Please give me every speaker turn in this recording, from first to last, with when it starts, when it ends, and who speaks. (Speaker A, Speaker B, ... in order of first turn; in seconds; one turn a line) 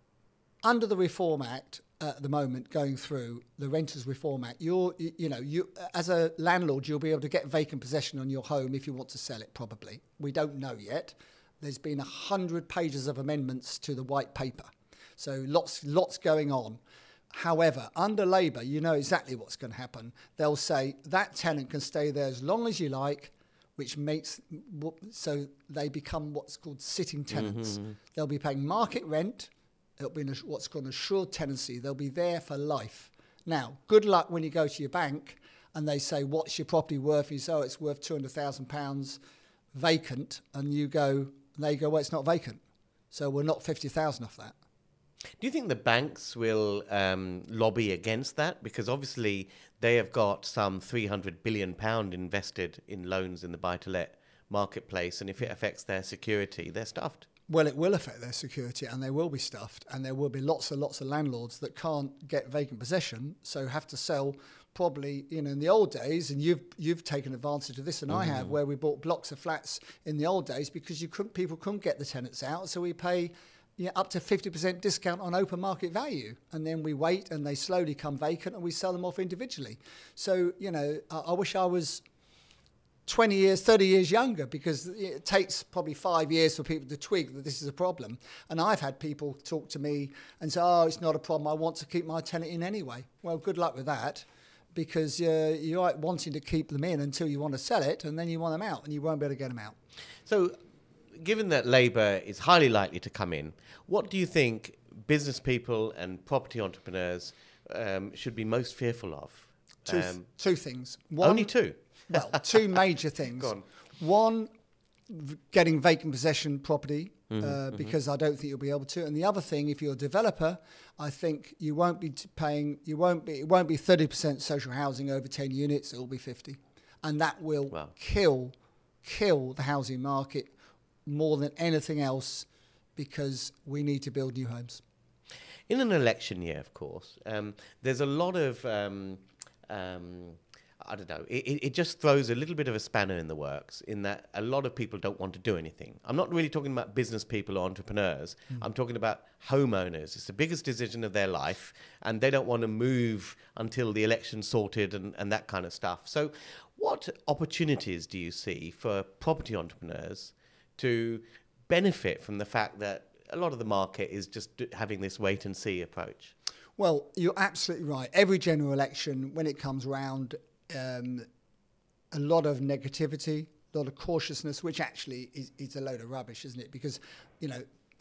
Speaker A: 0.6-16.8
Speaker A: 17.3-39.2
Speaker B: 27.3-27.9
Speaker A: 39.7-42.6
Speaker A: 43.1-44.5
Speaker B: 45.4-57.3
Speaker A: 57.5-82.0
Speaker A: 83.0-99.8
Speaker B: 100.2-100.6
Speaker B: 101.1-110.2
Speaker A: 109.9-111.5
Speaker B: 111.2-112.5
Speaker A: 112.1-114.5
Speaker B: 113.4-113.6
Speaker A: 115.1-130.5
Speaker B: 117.3-117.9
Speaker A: 131.1-134.8
Speaker B: 135.7-166.3
Speaker A: 166.8-171.3
Speaker A: 172.1-177.7